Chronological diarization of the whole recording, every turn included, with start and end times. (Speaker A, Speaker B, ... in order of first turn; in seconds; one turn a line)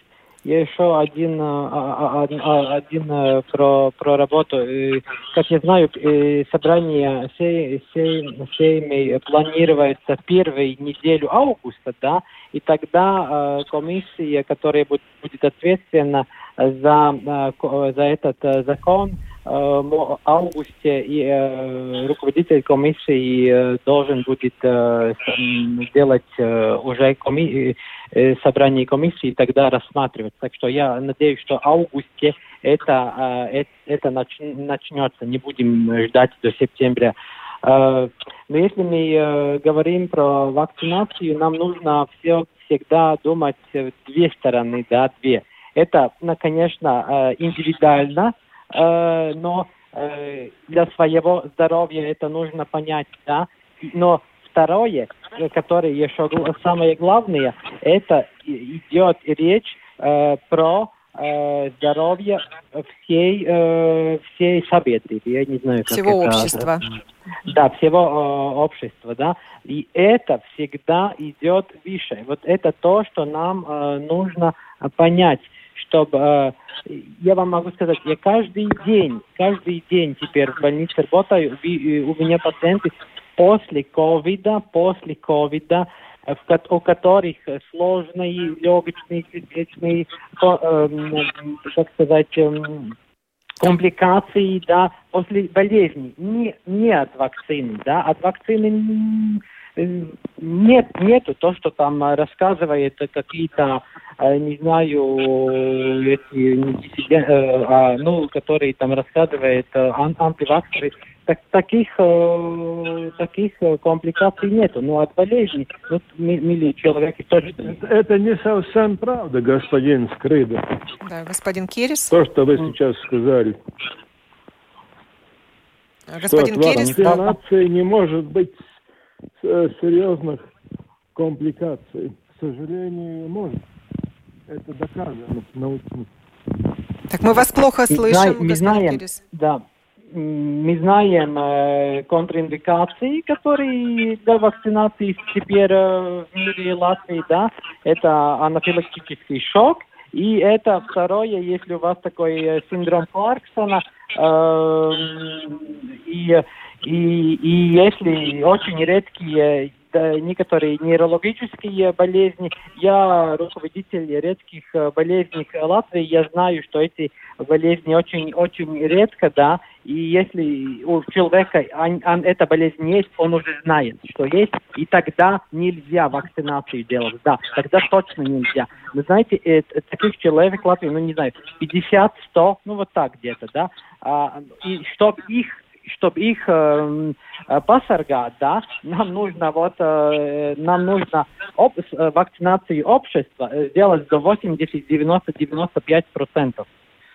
Speaker A: 0.4-66.8
Speaker B: 65.9-66.8
Speaker A: 67.5-92.9
Speaker A: 93.6-117.8
Speaker C: 117.7-120.6
Speaker B: 121.0-122.1
Speaker C: 122.1-123.5
Speaker B: 126.1-127.3
Speaker C: 126.3-128.6
Speaker A: 126.8-127.3
Speaker C: 129.4-130.4
Speaker C: 131.1-133.6
Speaker C: 134.5-136.1
Speaker B: 137.1-139.2
Speaker A: 137.9-139.6
Speaker A: 140.1-196.7